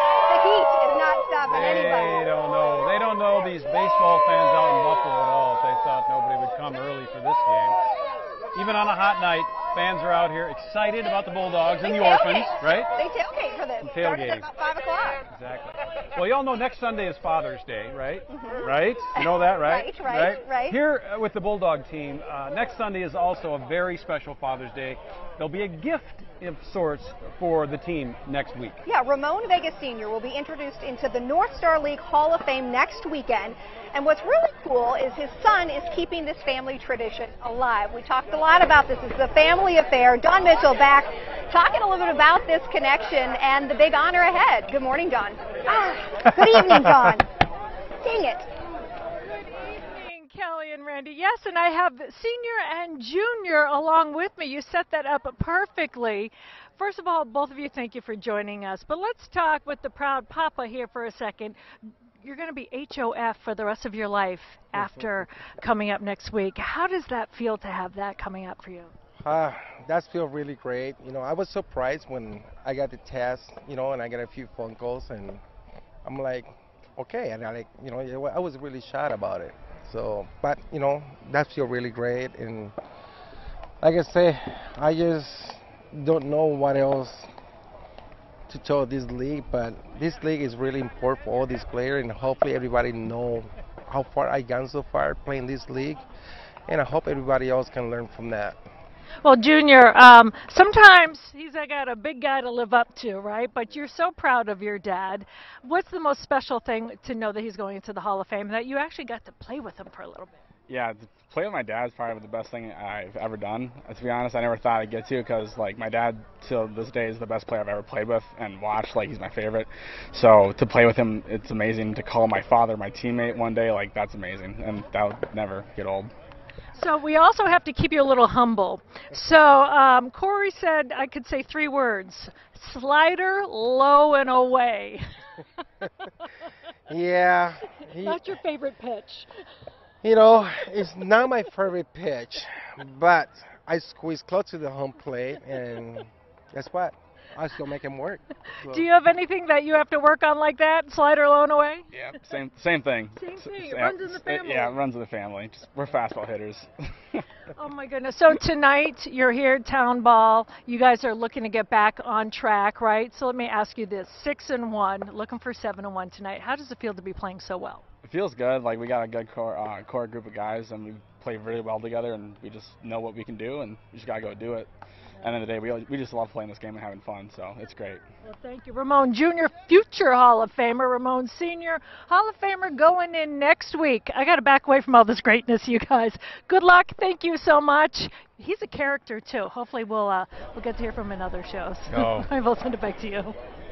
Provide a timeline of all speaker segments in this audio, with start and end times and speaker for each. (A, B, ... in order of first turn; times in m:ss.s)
0:00.3-0:02.2 A
0:01.4-0:07.9 B
0:08.5-0:12.9 B
0:11.8-0:15.2 A
0:13.8-0:14.4 B
0:15.3-0:28.8 B
0:18.3-0:20.8 A
0:28.8-0:47.2 A
0:48.0-0:48.5 A
0:49.8-1:01.6 C
1:02.2-1:08.9 C
1:09.2-1:15.4 D
1:16.0-1:22.7 D
1:23.8-1:27.3 D
1:28.5-1:36.0 D
1:36.7-1:38.6 D
1:39.2-1:50.4 C
1:50.7-2:06.1 E
2:06.8-2:15.0 C
2:16.9-2:18.4 D
2:18.0-2:19.3 C
2:20.0-2:28.9 D
2:28.6-2:31.9 C
2:31.9-2:37.2 E
2:33.2-2:34.8 C
2:37.5-2:47.8 C
2:48.0-2:54.7 E
2:55.2-2:58.0 E
2:58.2-3:13.3 C
3:11.9-3:12.3 B